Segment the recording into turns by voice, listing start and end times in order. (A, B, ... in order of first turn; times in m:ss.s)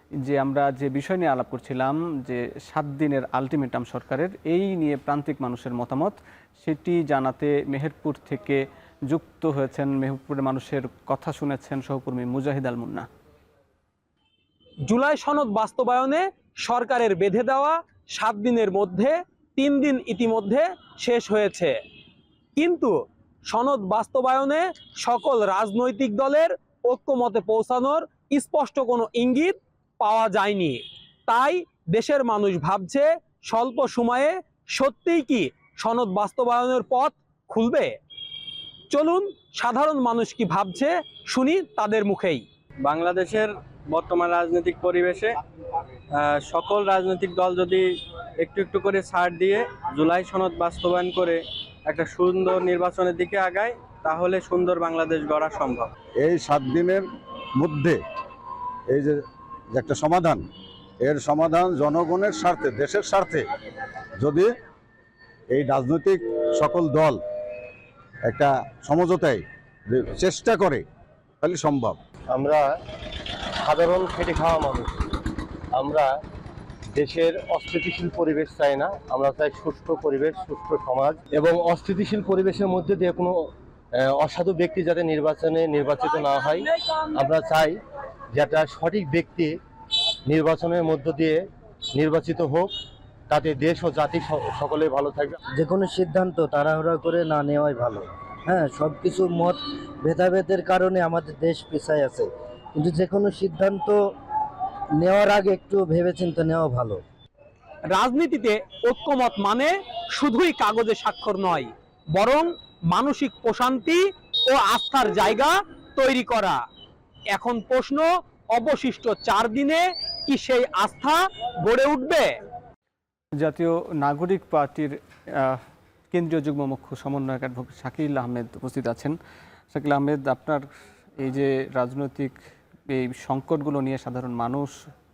0:00.2-0:13.1 A
0:14.9-0:21.8 B
0:22.6-0:23.0 B
0:23.5-0:37.9 B
0:38.9-0:42.4 B
0:42.8-0:45.4 C
0:46.1-0:55.9 C
0:56.2-0:58.0 D
0:58.9-1:00.5 D
1:01.0-1:03.5 D
1:04.2-1:04.5 D
1:05.5-1:07.2 D
1:08.2-1:10.8 D
1:11.4-1:12.0 D
1:12.3-1:12.7 E
1:13.6-1:15.2 E
1:15.7-1:16.1 E
1:16.9-1:23.4 E
1:24.0-1:27.8 E
1:28.3-1:29.6 E
1:30.3-1:31.4 E
1:32.0-1:32.7 E
1:33.3-1:35.4 E
1:35.6-1:44.0 F
1:45.0-1:47.0 F
1:47.9-1:56.6 B
1:57.3-2:02.3 B
2:03.4-2:09.2 A
2:09.7-2:10.7 A
2:11.2-2:12.4 A
2:12.9-2:14.7 A